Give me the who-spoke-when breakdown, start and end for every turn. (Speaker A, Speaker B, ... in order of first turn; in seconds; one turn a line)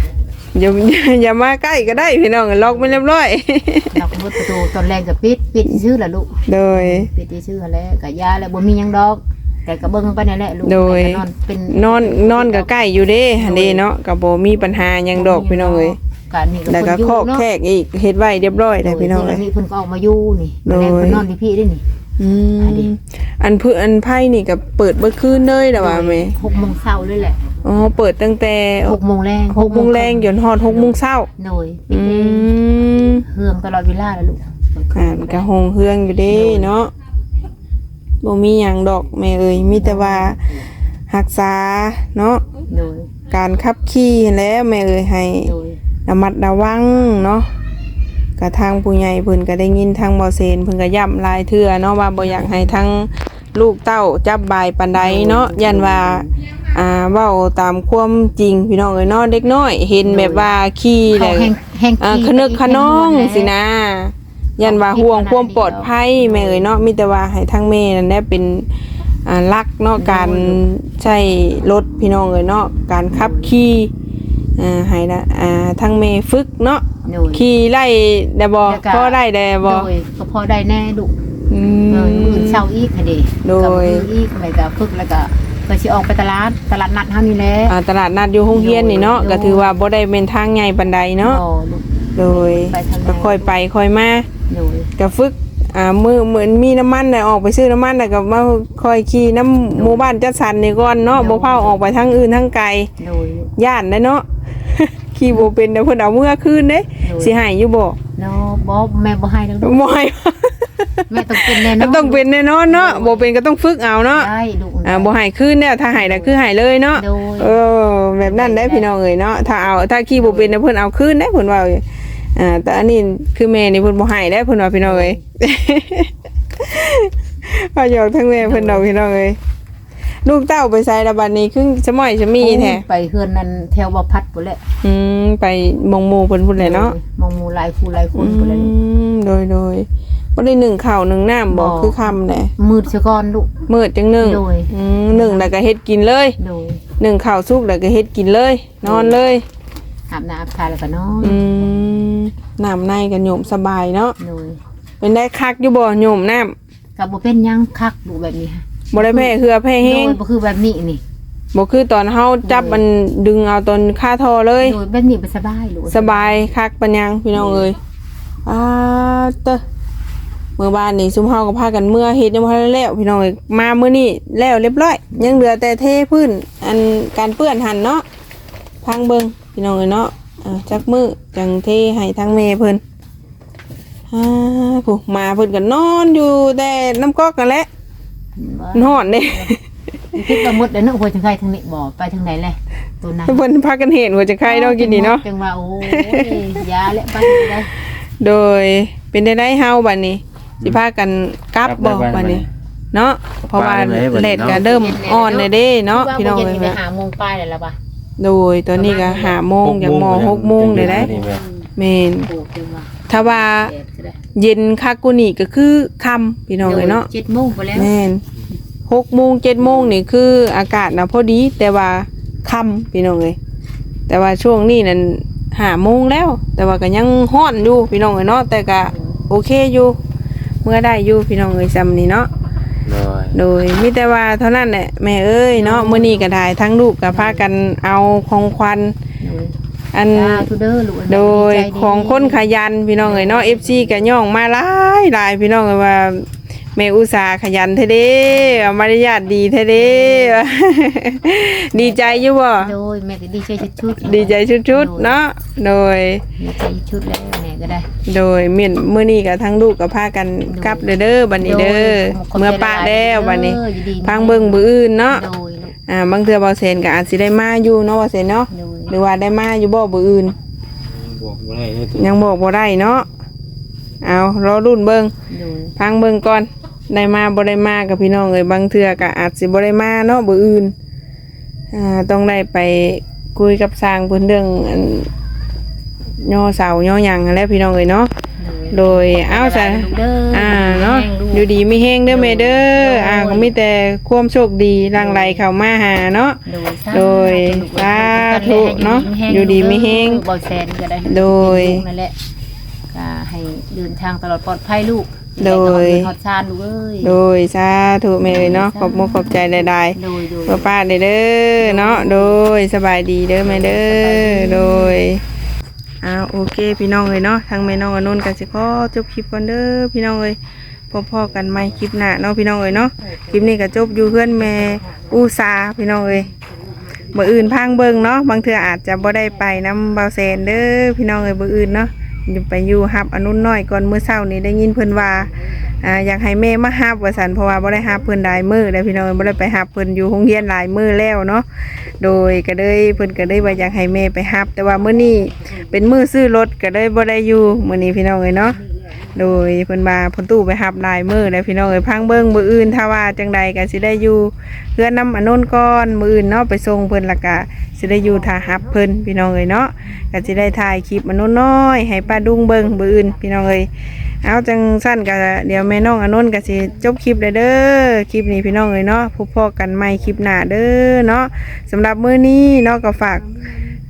Speaker A: 0.5-4.0
Speaker B: 2.6-3.0
Speaker B: 3.9-13.8
Speaker A: 6.5-7.1
Speaker A: 10.6-16.0
Speaker B: 15.1-17.4
Speaker A: 16.7-19.4
Speaker B: 18.8-21.8
Speaker A: 20.6-21.2
Speaker A: 22.2-26.4
Speaker B: 22.6-22.9
Speaker B: 25.7-27.4
Speaker A: 27.6-29.0
Speaker B: 28.8-35.5
Speaker A: 29.5-31.3
Speaker A: 31.9-33.2
Speaker A: 34.9-36.9
Speaker B: 36.3-36.7
Speaker A: 38.2-40.4
Speaker B: 39.8-40.5
Speaker A: 41.1-42.4
Speaker B: 42.7-43.1
Speaker A: 43.3-45.5
Speaker B: 45.4-45.8
Speaker A: 46.0-47.5
Speaker A: 48.4-68.7
Speaker B: 52.2-52.8
Speaker B: 54.9-56.3
Speaker B: 60.0-60.5
Speaker B: 61.1-63.5
Speaker B: 64.6-66.8
Speaker A: 69.2-73.9
Speaker B: 70.0-70.6
Speaker B: 73.1-73.5
Speaker A: 74.6-79.9
Speaker B: 77.0-77.5
Speaker B: 78.7-81.1
Speaker A: 81.5-82.6
Speaker B: 81.9-87.8
Speaker A: 83.4-84.1
Speaker A: 87.7-91.4
Speaker B: 88.5-89.7
Speaker B: 91.2-93.5
Speaker A: 92.2-94.3
Speaker B: 94.5-94.9
Speaker A: 95.0-102.9
Speaker B: 99.7-100.1
Speaker B: 101.1-101.9
Speaker B: 103.0-103.5
Speaker A: 103.6-108.0
Speaker B: 107.0-107.3
Speaker B: 108.1-109.8
Speaker A: 109.6-114.3
Speaker B: 111.1-113.3
Speaker B: 114.1-115.1
Speaker A: 114.8-121.8
Speaker B: 115.9-116.3
Speaker B: 116.9-117.6
Speaker B: 118.2-118.9
Speaker B: 120.1-120.5
Speaker A: 122.3-129.4
Speaker B: 124.8-125.2
Speaker B: 128.4-128.8
Speaker A: 130.2-132.8
Speaker B: 132.4-134.6
Speaker A: 134.8-136.9
Speaker B: 136.6-138.7
Speaker A: 138.1-142.5
Speaker B: 141.5-143.5
Speaker A: 143.7-146.3
Speaker B: 144.2-145.5
Speaker B: 146.4-146.8
Speaker A: 147.0-149.4
Speaker B: 148.8-149.2
Speaker B: 150.1-151.4
Speaker A: 151.2-154.1
Speaker B: 154.2-154.6
Speaker A: 155.0-156.5
Speaker B: 157.0-161.0
Speaker A: 158.9-160.2
Speaker A: 161.5-164.8
Speaker B: 162.4-162.8
Speaker B: 164.6-166.5
Speaker A: 165.9-167.8
Speaker B: 167.3-167.7
Speaker A: 168.4-169.6
Speaker A: 170.6-178.0
Speaker B: 175.1-175.5
Speaker A: 178.8-182.8
Speaker A: 184.1-187.7
Speaker B: 188.3-189.5
Speaker A: 188.7-189.6
Speaker B: 190.1-193.4
Speaker A: 190.2-190.5
Speaker A: 193.3-195.2
Speaker B: 194.4-197.7
Speaker A: 195.9-196.4
Speaker A: 198.2-206.8
Speaker C: 201.6-202.5
Speaker C: 203.5-204.6
Speaker B: 204.4-207.8
Speaker A: 208.2-211.1
Speaker B: 208.7-209.4
Speaker C: 209.6-211.4
Speaker B: 210.8-211.7
Speaker A: 211.8-212.3
Speaker B: 212.2-214.2
Speaker A: 213.1-213.7
Speaker A: 214.3-217.1
Speaker B: 216.6-217.9
Speaker A: 217.7-218.2
Speaker A: 218.9-223.4
Speaker A: 224.1-230.0
Speaker B: 228.9-229.2
Speaker A: 230.6-232.3
Speaker C: 232.8-233.4
Speaker A: 233.3-238.9
Speaker B: 235.6-236.4
Speaker B: 237.1-237.4
Speaker B: 239.2-239.6
Speaker A: 239.9-240.5
Speaker B: 240.1-244.1
Speaker A: 241.1-252.7
Speaker B: 248.3-248.7
Speaker B: 249.8-250.4
Speaker B: 251.7-255.2
Speaker A: 254.0-256.2
Speaker B: 256.4-257.9
Speaker A: 258.1-265.2
Speaker B: 260.4-265.7
Speaker A: 265.9-270.3
Speaker B: 268.5-268.9
Speaker C: 270.9-272.1
Speaker A: 272.0-273.1
Speaker A: 274.0-275.1
Speaker B: 275.3-275.7
Speaker A: 275.8-280.7
Speaker A: 281.7-285.1
Speaker A: 286.2-288.1
Speaker B: 288.4-293.5
Speaker A: 288.7-296.4
Speaker B: 294.9-295.4
Speaker B: 296.4-302.1
Speaker A: 296.9-300.2
Speaker A: 301.1-301.8
Speaker B: 302.9-307.2
Speaker A: 305.4-306.1
Speaker A: 307.0-309.9
Speaker B: 308.2-310.7
Speaker A: 310.5-315.2
Speaker B: 311.6-312.4
Speaker B: 313.4-315.0
Speaker A: 316.0-320.4
Speaker A: 320.9-326.3
Speaker B: 322.8-325.1
Speaker A: 327.1-341.4
Speaker A: 342.0-348.6
Speaker A: 349.1-363.7
Speaker A: 364.2-373.2